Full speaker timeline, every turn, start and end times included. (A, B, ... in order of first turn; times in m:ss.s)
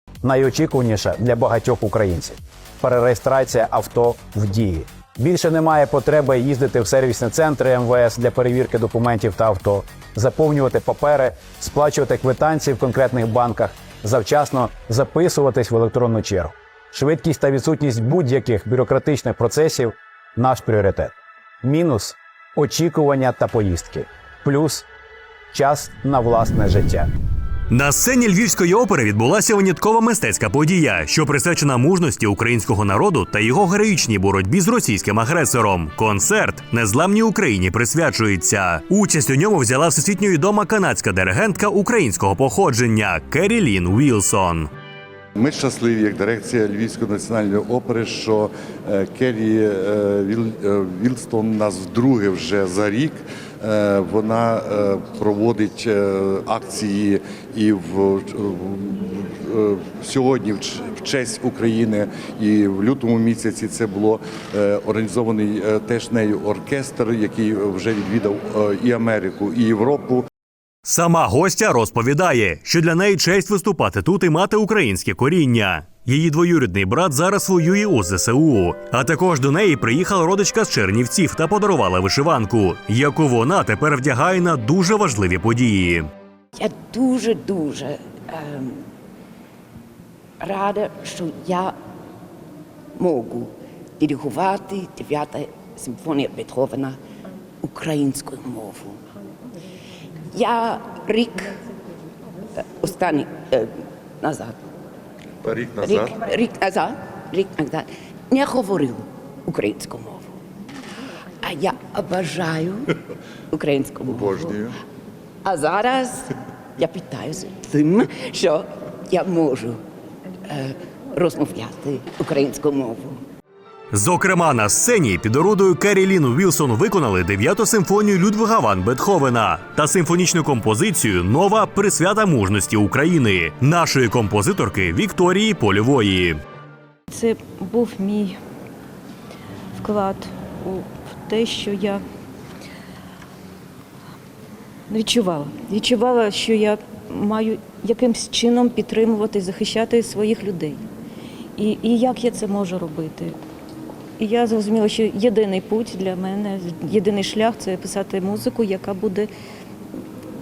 0:00.2-0:21.1 A
0:21.6-0:24.8 A
0:25.5-0:27.1 A
0:27.7-0:44.7 B
0:45.4-1:10.2 C
1:10.8-1:26.1 B
1:26.5-1:28.8 D
1:30.4-1:31.8 D
1:33.0-1:37.0 D
1:37.6-1:39.0 D
1:40.3-1:41.6 D
1:42.8-1:44.6 D
1:45.4-1:46.2 C
1:45.8-1:50.3 D
1:51.4-1:52.8 D
1:53.5-1:54.6 D
1:54.0-1:54.7 C
1:55.4-1:56.2 D
1:56.8-1:59.8 D
2:00.5-2:03.2 D
2:03.9-2:16.4 B
2:17.1-2:18.4 E
2:19.8-2:22.0 E
2:24.9-2:30.8 E
2:31.6-2:33.4 E
2:34.2-2:39.3 E